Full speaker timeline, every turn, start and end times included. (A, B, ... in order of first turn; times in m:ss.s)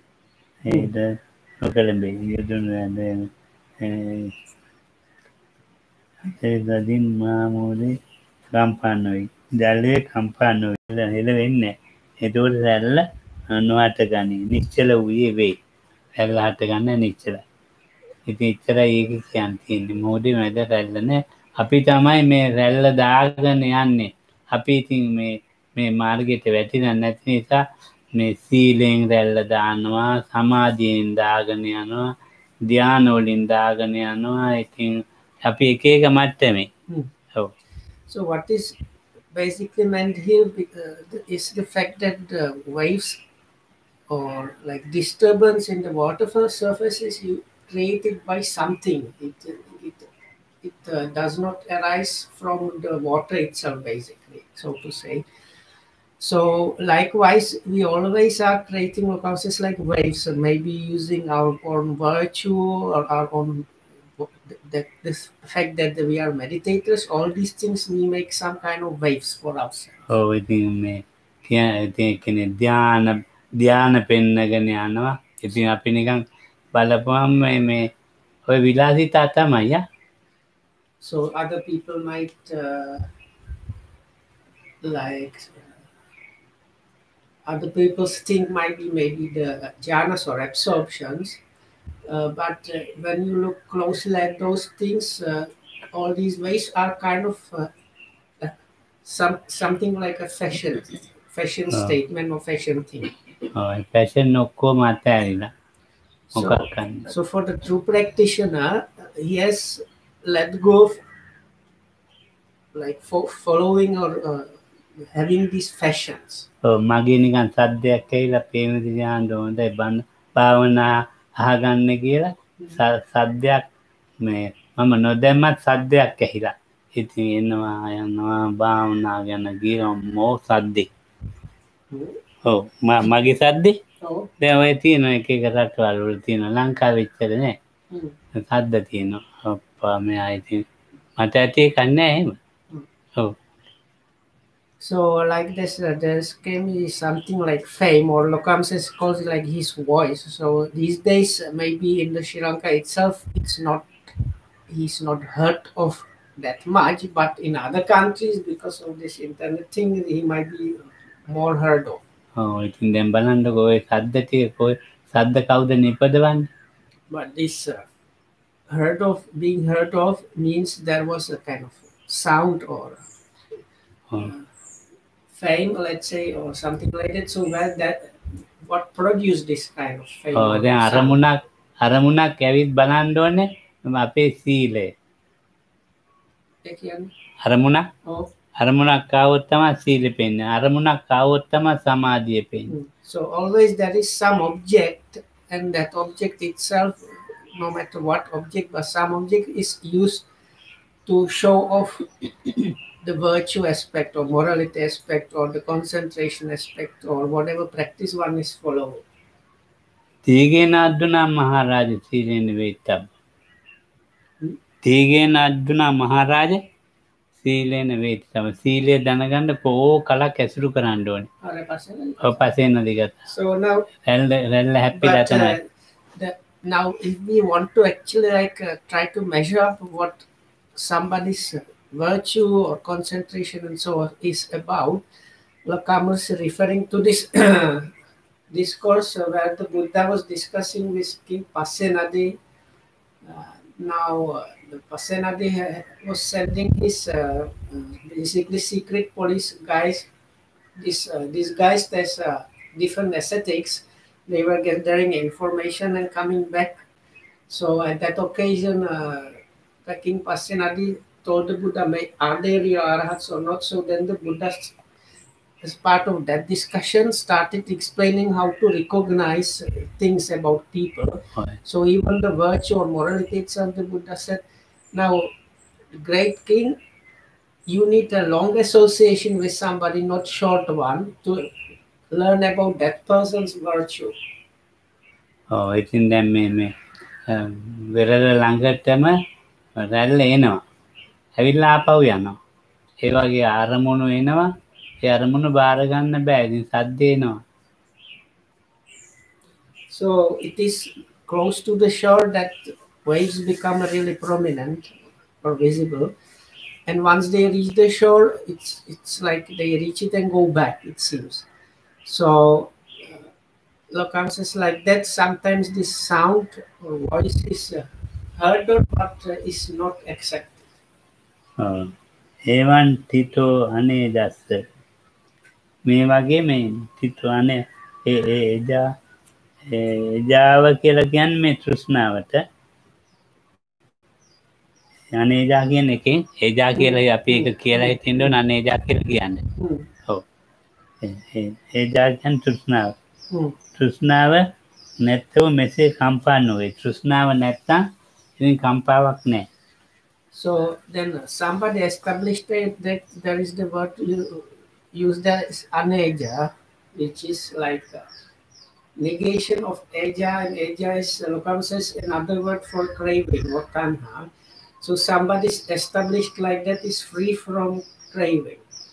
0:00.6-0:04.3 A
0:06.2-0:08.0 A
0:08.5-0:15.6 A
0:16.2-0:17.4 A
0:18.2-0:32.1 A
0:32.6-0:36.7 A
0:38.1-0:38.8 B
0:39.3-0:43.2 B
0:44.1-0:50.1 B
0:50.6-0:55.2 B
0:56.2-1:10.0 B
1:10.1-1:17.9 A
1:18.5-1:19.8 A
1:21.0-1:23.1 B
1:24.8-1:25.7 B
1:27.4-1:31.4 B
1:32.1-1:37.7 B
1:38.4-1:43.1 B
1:43.5-1:45.5 A
1:46.3-1:51.0 B
1:46.4-1:47.1 A
1:52.7-1:56.4 B
1:56.6-2:03.7 A
2:04.2-2:10.9 A
2:11.9-2:12.2 B
2:12.4-2:13.8 A
2:14.0-2:14.3 B
2:14.4-2:17.6 A
2:18.3-2:20.6 A
2:21.2-2:22.4 A
2:24.8-2:34.1 B
2:34.7-2:42.0 B
2:42.4-2:46.5 A
2:47.1-2:47.9 B
2:48.7-2:53.0 B
2:54.2-2:54.4 B
2:55.3-3:01.2 B
3:00.3-3:04.9 A
3:06.6-3:07.1 B
3:07.4-3:07.9 A
3:08.0-3:08.3 B
3:08.6-3:12.7 A
3:12.7-3:20.3 B
3:21.0-3:29.0 B
3:30.2-3:33.1 A
3:34.8-3:36.6 A
3:37.4-3:41.3 A
3:41.4-3:42.4 B
3:42.2-3:43.3 A
3:43.3-3:43.9 B
3:44.0-3:45.6 A
3:44.9-3:55.0 B
3:55.6-3:57.9 B
3:58.5-4:02.4 B
4:03.2-4:10.1 B
4:10.8-4:16.8 B
4:17.5-4:24.8 B
4:25.6-4:35.3 B
4:35.9-4:36.8 B
4:37.7-4:41.5 B
4:42.1-4:44.1 B
4:45.5-4:46.7 A
4:47.3-4:49.2 A
4:49.8-4:50.6 A
4:51.4-4:52.4 A
4:53.0-4:57.4 A
4:59.9-5:06.1 B
5:06.8-5:11.5 B
5:12.0-5:13.3 B
5:13.9-5:20.6 B
5:21.6-5:21.9 A
5:22.5-5:24.6 A
5:25.8-5:28.9 A
5:29.6-5:32.4 A
5:35.1-5:39.4 A
5:36.8-5:38.3 B
5:39.6-5:39.9 B
5:41.0-5:42.9 A
5:43.3-5:43.6 B
5:43.7-5:44.5 A
5:45.0-5:49.5 A
5:50.3-5:58.1 B
5:59.0-6:04.3 B
6:04.8-6:08.6 B